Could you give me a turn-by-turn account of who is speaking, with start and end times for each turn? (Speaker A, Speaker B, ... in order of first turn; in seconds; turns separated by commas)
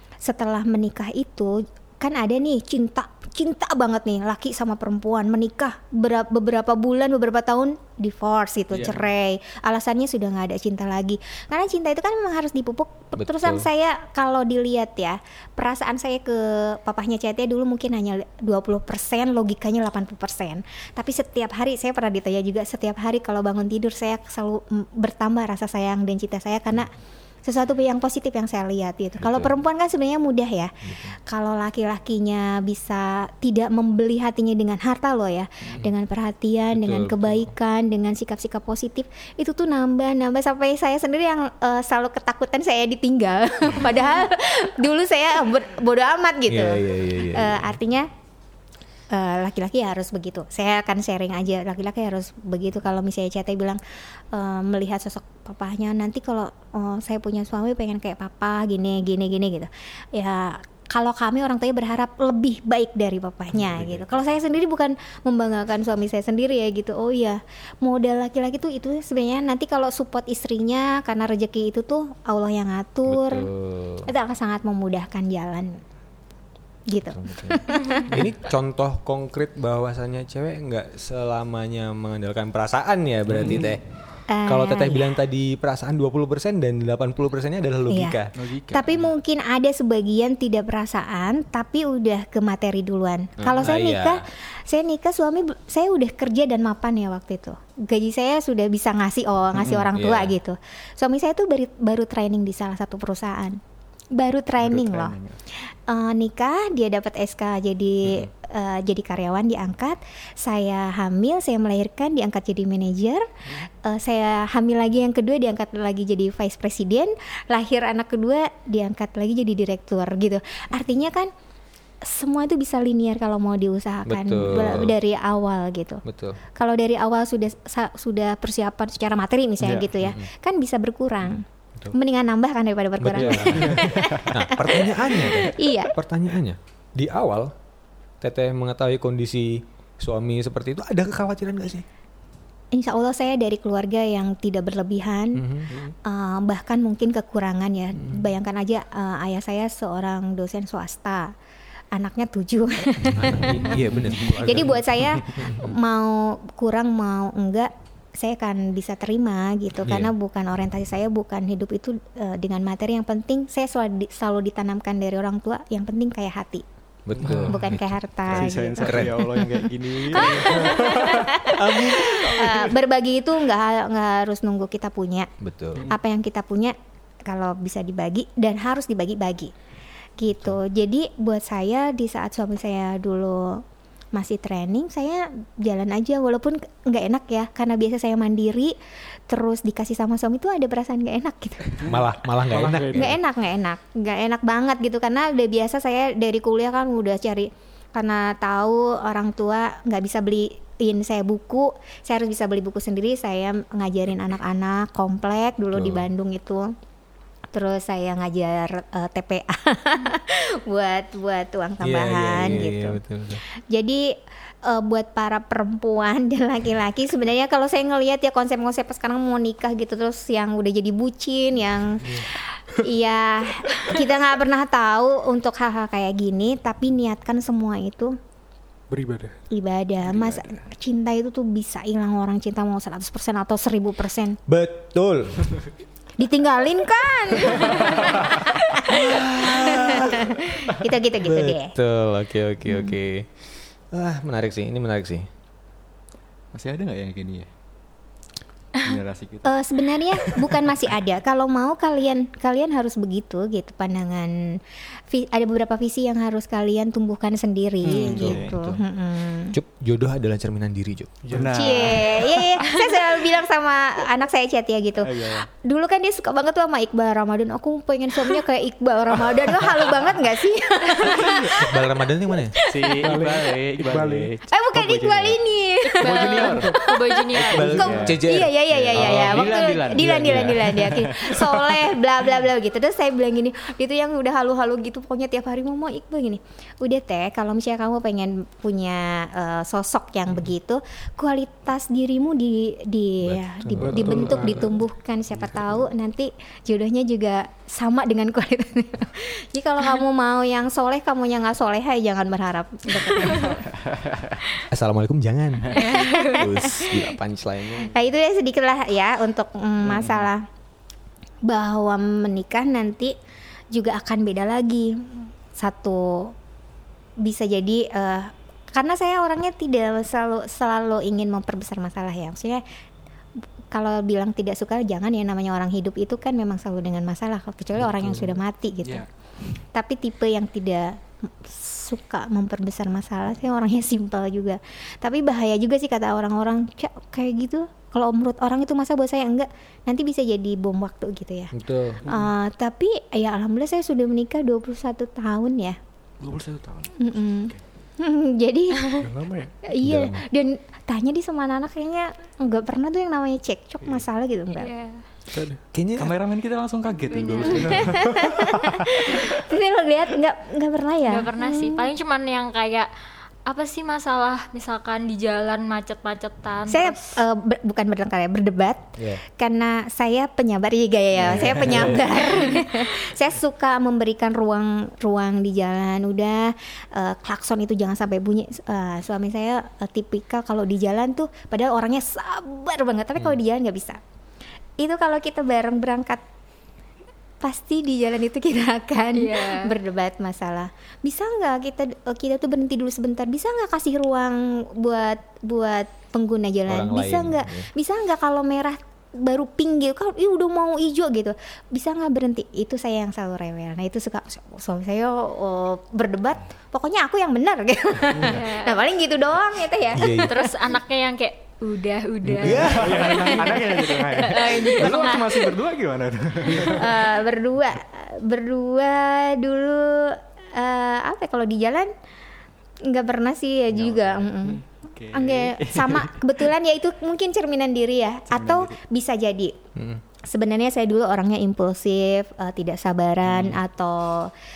Speaker A: 0.2-26.9, Speaker B: 8.7-9.0, Speaker C: 13.2-13.7, Speaker A: 27.4-48.1, Speaker C: 29.2-29.5, Speaker C: 30.8-31.1, Speaker C: 36.7-37.5, Speaker C: 46.5-47.7, Speaker A: 49.1-53.8, Speaker A: 54.3-73.5, Speaker C: 63.6-64.0, Speaker C: 73.1-74.1, Speaker A: 74.0-75.8, Speaker A: 76.9-78.2, Speaker C: 77.1-83.8, Speaker D: 77.8-78.0, Speaker B: 83.3-83.7, Speaker A: 84.3-85.2, Speaker C: 84.4-88.4, Speaker A: 87.9-88.2, Speaker B: 88.3-89.1, Speaker A: 88.7-103.6, Speaker C: 93.4-94.2, Speaker C: 99.9-100.3, Speaker A: 104.1-121.3, Speaker B: 104.6-105.4, Speaker A: 122.0-126.0, Speaker C: 124.0-124.9, Speaker C: 126.0-126.4, Speaker A: 126.5-135.9, Speaker B: 129.6-129.9, Speaker C: 130.0-130.3, Speaker C: 133.0-137.5, Speaker B: 133.2-134.3, Speaker C: 138.2-141.8, Speaker A: 142.7-151.3, Speaker C: 145.3-145.7, Speaker E: 145.7-145.9, Speaker C: 147.9-148.2, Speaker A: 151.9-166.6, Speaker C: 153.0-155.7, Speaker C: 159.8-160.1, Speaker C: 167.1-169.2, Speaker B: 167.2-167.5, Speaker A: 167.5-175.3, Speaker B: 168.3-171.2, Speaker D: 170.3-171.0, Speaker E: 170.4-170.8, Speaker C: 171.5-172.2, Speaker C: 175.4-175.9, Speaker A: 175.9-176.8, Speaker A: 177.3-179.5, Speaker A: 180.2-183.6, Speaker A: 184.1-188.7, Speaker A: 189.3-191.9, Speaker E: 191.8-193.1, Speaker C: 191.8-193.1, Speaker A: 192.9-206.7, Speaker C: 205.7-206.1, Speaker A: 207.5-228.2, Speaker C: 211.8-213.4, Speaker E: 222.0-222.3, Speaker E: 228.9-229.4, Speaker A: 229.5-234.4, Speaker B: 230.0-230.7, Speaker C: 234.5-235.6, Speaker A: 236.2-241.7, Speaker C: 238.9-240.3, Speaker C: 241.2-245.3, Speaker B: 246.5-247.5, Speaker B: 248.8-250.7, Speaker A: 249.4-259.5, Speaker B: 257.8-258.5, Speaker C: 257.9-258.8, Speaker C: 259.5-261.2, Speaker E: 261.2-262.1, Speaker B: 261.3-262.3, Speaker A: 261.5-271.9, Speaker D: 262.6-263.0, Speaker B: 265.0-265.5, Speaker C: 271.3-272.5, Speaker A: 272.5-273.1, Speaker B: 272.7-275.4, Speaker E: 273.0-274.3, Speaker A: 274.5-303.6, Speaker D: 275.9-278.1, Speaker B: 276.0-276.7, Speaker C: 277.5-279.5, Speaker B: 277.6-278.2, Speaker B: 278.7-281.9, Speaker C: 293.2-294.8, Speaker E: 293.8-294.8, Speaker B: 303.4-304.4, Speaker C: 304.7-308.0, Speaker D: 305.7-306.5, Speaker A: 305.7-307.1, Speaker A: 307.8-310.4, Speaker B: 309.8-310.3, Speaker A: 311.4-313.1, Speaker A: 313.7-316.3, Speaker A: 317.2-322.6, Speaker A: 323.7-345.8, Speaker C: 341.5-342.0, Speaker B: 346.2-347.6, Speaker A: 347.0-349.1, Speaker E: 349.0-349.5, Speaker A: 349.6-354.7, Speaker C: 349.8-350.2, Speaker D: 354.5-355.1, Speaker E: 355.3-355.6, Speaker C: 355.7-356.1, Speaker B: 356.0-358.1, Speaker D: 357.1-358.0, Speaker E: 357.6-358.7, Speaker A: 357.7-361.9, Speaker D: 361.1-362.9, Speaker D: 363.4-367.2, Speaker A: 366.7-384.0, Speaker C: 369.0-369.2, Speaker B: 371.2-372.0, Speaker A: 384.8-386.2, Speaker A: 387.4-410.5, Speaker D: 389.1-389.7, Speaker C: 396.7-397.7, Speaker D: 408.3-408.8, Speaker C: 409.9-410.3, Speaker D: 410.1-415.5, Speaker C: 412.3-413.1, Speaker B: 412.4-416.9, Speaker E: 412.4-413.6, Speaker E: 416.4-416.9, Speaker A: 416.7-421.9, Speaker A: 422.8-429.5, Speaker B: 423.7-426.4, Speaker B: 428.3-428.8, Speaker C: 429.7-430.0, Speaker A: 430.2-434.3, Speaker B: 433.2-433.6